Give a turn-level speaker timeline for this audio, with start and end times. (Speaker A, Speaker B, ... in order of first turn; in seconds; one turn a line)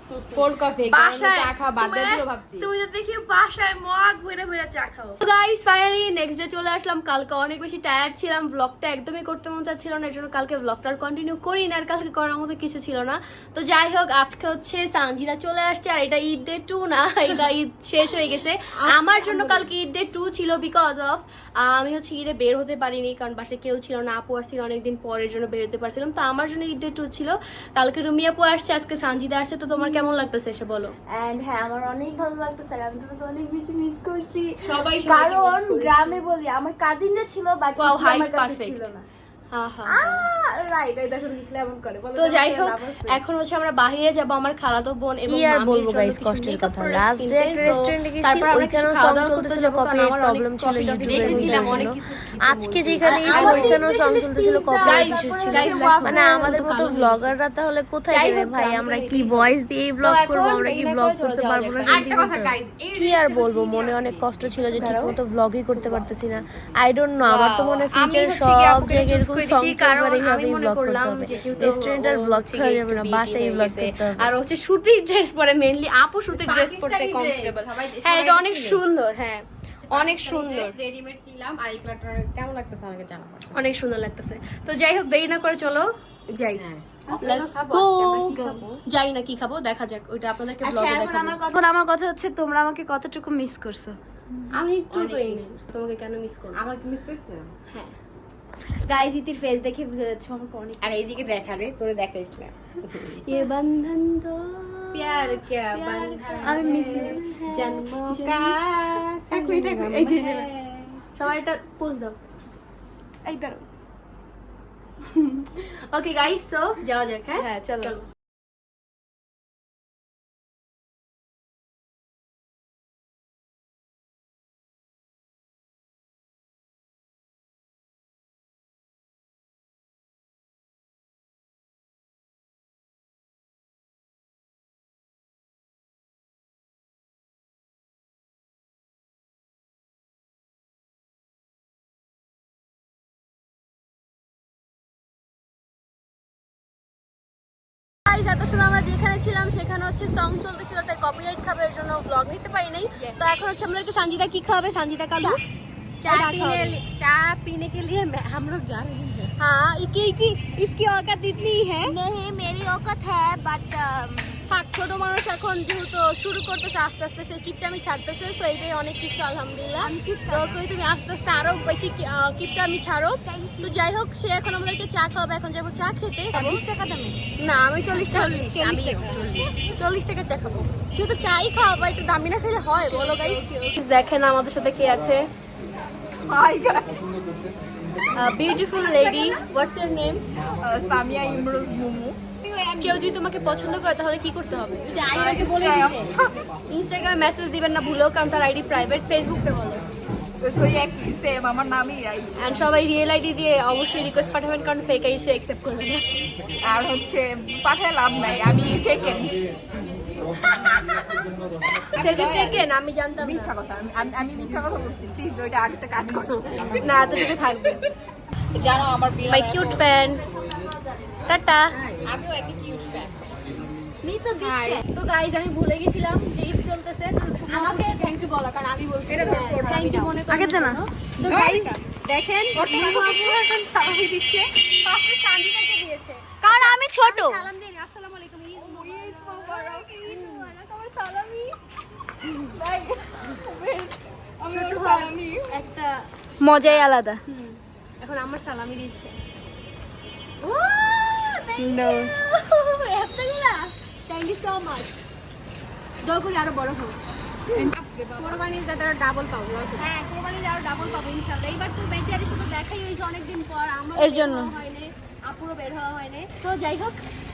Speaker A: 0.3-2.7
Speaker B: 0.8-30.9
Speaker A: 18.9-19.7
Speaker C: 31.1-39.1
Speaker B: 34.6-36.2
Speaker B: 37.8-38.9
Speaker B: 39.5-40.3
Speaker C: 39.9-43.2
Speaker B: 42.1-52.0
Speaker D: 45.2-74.3
Speaker A: 51.1-57.3
Speaker B: 53.2-54.0
Speaker B: 54.8-57.0
Speaker B: 58.1-62.4
Speaker A: 61.9-65.2
Speaker B: 64.8-65.2
Speaker A: 65.7-66.7
Speaker B: 67.3-80.8
Speaker A: 71.3-71.7
Speaker A: 76.3-78.8
Speaker A: 79.9-83.7
Speaker B: 83.5-86.6
Speaker A: 86.5-88.8
Speaker B: 87.2-87.6
Speaker C: 87.7-88.7
Speaker B: 88.8-91.4
Speaker C: 90.6-94.0
Speaker B: 94.5-96.6
Speaker A: 94.9-95.5
Speaker A: 96.6-97.5
Speaker B: 97.7-97.9
Speaker C: 98.9-101.1
Speaker A: 100.8-103.2
Speaker B: 103.2-108.5
Speaker A: 104.9-111.0
Speaker C: 106.4-107.7
Speaker B: 109.3-110.5
Speaker B: 111.2-112.2
Speaker B: 113.2-113.7
Speaker B: 115.4-118.0
Speaker A: 117.4-117.9
Speaker B: 148.1-155.4
Speaker B: 156.0-156.8
Speaker A: 156.1-159.3
Speaker B: 159.4-161.9
Speaker C: 161.8-164.4
Speaker B: 164.5-176.6
Speaker C: 169.8-170.6
Speaker C: 173.3-173.8
Speaker C: 176.3-177.2
Speaker B: 177.4-179.2
Speaker A: 178.1-179.6
Speaker B: 179.7-185.3
Speaker E: 186.3-186.9
Speaker B: 188.2-190.2
Speaker E: 190.6-192.2
Speaker A: 192.4-192.9
Speaker B: 192.8-196.0
Speaker A: 194.8-196.1
Speaker E: 195.4-196.3
Speaker B: 196.7-199.8
Speaker E: 200.4-202.3
Speaker B: 202.4-206.1
Speaker E: 206.6-209.3
Speaker B: 212.0-213.5
Speaker E: 212.0-212.7
Speaker E: 213.2-217.4
Speaker A: 216.5-217.3
Speaker B: 216.7-217.8
Speaker A: 218.6-219.7
Speaker E: 218.6-219.8
Speaker B: 219.3-220.2
Speaker B: 221.3-221.8
Speaker A: 221.8-223.1
Speaker C: 224.0-224.8
Speaker A: 224.4-224.8
Speaker B: 224.7-241.6
Speaker A: 229.1-230.0
Speaker E: 229.2-229.7
Speaker C: 230.3-231.3
Speaker A: 231.3-231.8
Speaker E: 231.3-231.7
Speaker C: 236.4-237.5
Speaker E: 238.8-239.8
Speaker E: 242.6-245.4
Speaker B: 244.5-245.9
Speaker C: 246.4-247.2
Speaker B: 246.6-249.2
Speaker B: 250.4-255.0
Speaker C: 251.6-252.1
Speaker B: 256.0-257.0
Speaker A: 257.5-259.9
Speaker B: 258.0-258.4
Speaker B: 259.8-267.0